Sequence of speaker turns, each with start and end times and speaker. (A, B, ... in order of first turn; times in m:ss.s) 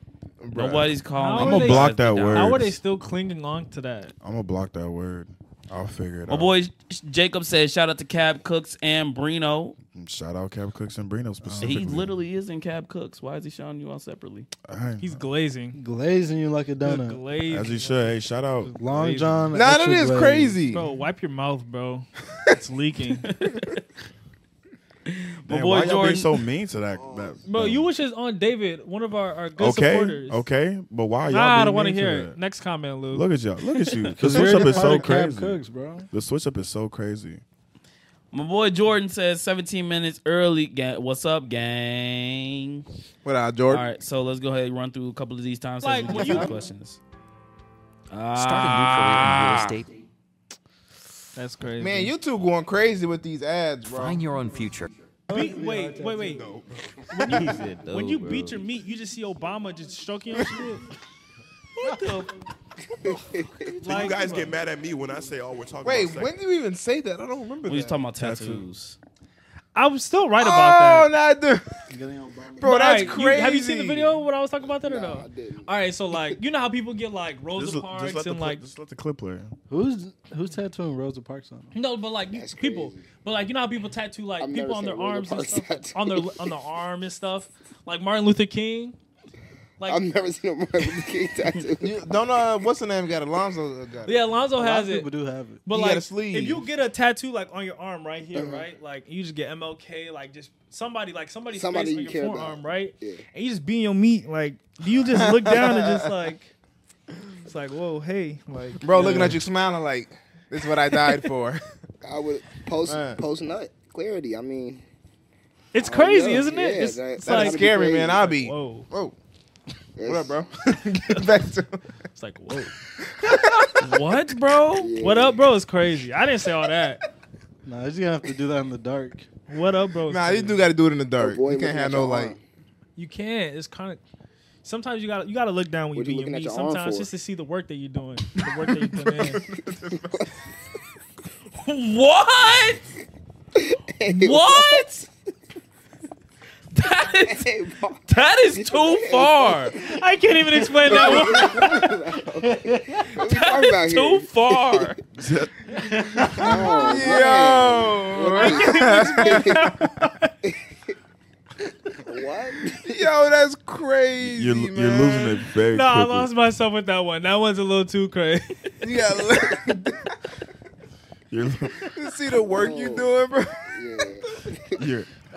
0:00.4-0:00.8 A
0:00.5-0:02.6 B
0:01.2-0:04.1 C
0:01.3-0:02.8 D
0:04.2-0:06.6 D
0:06.3-0:09.8 B
0:09.9-0:12.2 D
0:11.4-0:11.9 E
0:11.6-0:14.5 B
0:14.6-0:15.3 D
0:15.0-0:15.8 C
0:15.7-0:17.2 E
0:16.8-0:19.5 C
0:17.4-0:18.7 D
0:18.7-0:20.6 E
0:19.5-0:20.8 A
0:20.7-0:23.3 C
0:23.3-0:23.8 B
0:25.1-0:26.3 B
0:25.5-0:27.9 D
0:27.5-0:30.4 C
0:29.6-0:32.4 D
0:31.3-0:33.3 C
0:33.1-0:37.4 D
0:34.2-0:36.1 E
0:34.3-0:35.0 A
0:38.3-0:42.8 B
0:43.2-0:43.8 A
0:43.7-0:47.0 B
0:45.8-0:46.6 C
0:48.1-0:49.8 B
0:48.4-0:50.0 F
0:51.4-0:52.1 C
0:51.8-0:54.2 A
0:53.9-0:55.0 F
0:55.3-0:56.6 E
0:55.3-0:56.5 C
0:57.1-1:00.9 C
0:57.2-0:58.6 B
1:01.8-1:02.3 B
1:03.0-1:03.6 G
1:03.7-1:06.3 D
1:03.8-1:04.6 C
1:05.8-1:08.0 A
1:07.6-1:09.0 B
1:08.2-1:08.6 D
1:09.8-1:11.1 C
1:10.4-1:11.7 A
1:11.9-1:12.8 E
1:12.6-1:14.2 A
1:12.6-1:18.6 C
1:14.6-1:15.7 G
1:17.6-1:19.5 D
1:19.7-1:21.7 E
1:21.7-1:29.0 C
1:22.3-1:23.0 G
1:24.4-1:26.5 G
1:29.8-1:32.1 G
1:31.8-1:34.3 A
1:34.0-1:35.1 C
1:34.6-1:35.6 E
1:35.6-1:46.5 C
1:35.7-1:36.6 A
1:38.4-1:38.6 G
1:41.5-1:43.2 G
1:45.1-1:46.2 A
1:47.5-1:49.4 C
1:48.8-1:51.6 A
1:52.0-1:54.8 G
1:52.9-1:53.2 A
1:55.7-1:58.9 C
1:55.8-1:58.2 G
1:57.2-1:59.2 A
2:00.0-2:00.4 G
2:00.1-2:01.8 A
2:02.2-2:02.7 C
2:03.2-2:03.8 A
2:03.7-2:07.0 C
2:04.7-2:05.4 G
2:07.6-2:09.3 E
2:09.5-2:10.6 C
2:10.1-2:12.4 A
2:11.2-2:12.4 G
2:13.0-2:14.0 C
2:14.6-2:19.4 C
2:16.0-2:17.1 G
2:19.2-2:20.1 A
2:21.6-2:22.8 B
2:23.6-2:25.0 G
2:24.1-2:25.0 B
2:26.7-2:27.5 B
2:27.3-2:28.0 G
2:28.1-2:29.8 B
2:28.6-2:30.0 G
2:29.8-2:31.8 C
2:30.8-2:34.9 G
2:32.6-2:33.0 E
2:33.2-2:35.0 B
2:35.2-2:35.5 D
2:36.4-2:39.7 G
2:36.5-2:39.8 A
2:36.6-2:36.9 C
2:38.3-2:40.3 C
2:42.0-2:43.1 G
2:42.8-2:45.4 A
2:44.2-2:46.3 D
2:45.7-2:48.6 C
2:48.8-2:50.0 A
2:51.3-2:51.8 D
2:51.9-2:53.7 A
2:52.3-2:54.8 G
2:54.8-2:55.1 D